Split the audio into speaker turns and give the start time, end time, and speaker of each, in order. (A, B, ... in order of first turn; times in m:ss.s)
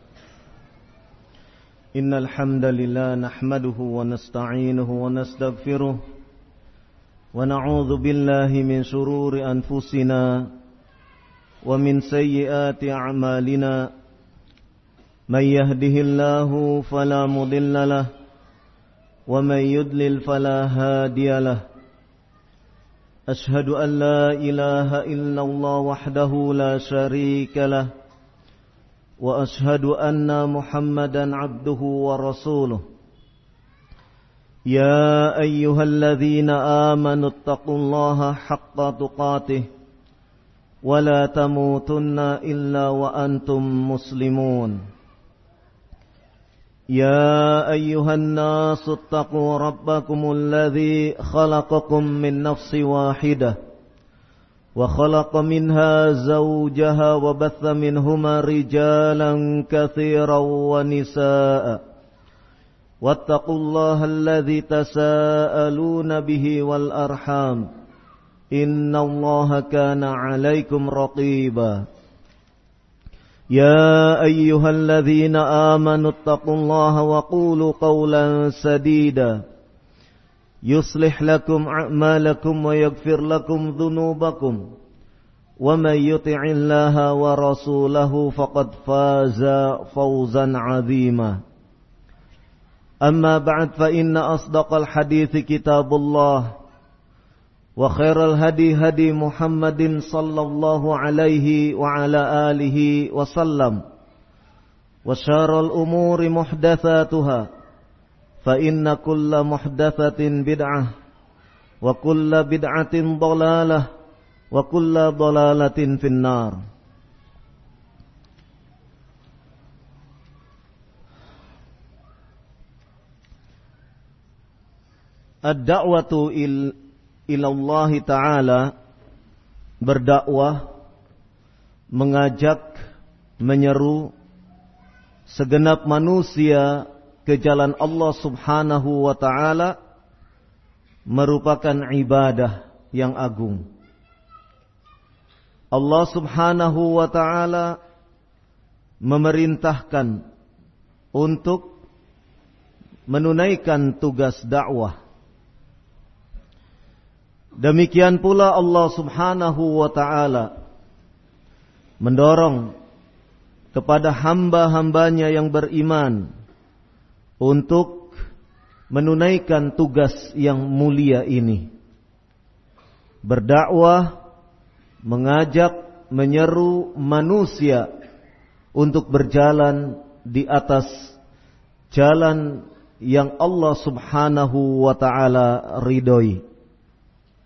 0:02.0-0:06.0 A
0:07.3-0:10.5 A
0:11.6-0:13.9 A
0:15.3-0:18.1 A
0:19.3-0:21.6 A
0:23.3-0:27.9 A
0:29.2-0:32.8 A
0:34.7-0:39.7 A
0:40.8-0:44.8 A
0:46.9-0:53.6 A
0:54.8-1:01.8 A
1:03.0-1:07.7 A
1:08.5-1:11.9 A
1:13.5-1:19.4 A
1:20.6-1:24.6 A
1:25.6-1:31.4 A
1:33.0-1:36.6 A
1:37.8-1:43.8 A
1:45.0-1:47.5 A
1:48.4-1:50.9 A
1:51.8-1:53.9 A
1:54.5-1:56.6 A
2:05.5-2:06.8 A
2:07.3-2:08.7 A
2:09.8-2:10.7 A
2:12.0-2:12.8 A
2:13.4-2:14.1 A
2:15.3-2:19.7 A
2:21.1-2:23.6 A
2:25.7-2:27.8 A
2:29.0-2:30.2 A
2:31.2-2:31.8 A
2:33.1-2:35.0 A
2:37.6-2:40.5 A
2:42.0-2:42.7 A
2:43.7-2:46.3 A
2:47.4-2:48.1 A
2:48.9-2:51.7 A
2:53.2-2:54.2 A
2:55.0-2:57.9 A
2:58.8-3:01.1 A
3:01.9-3:06.4 A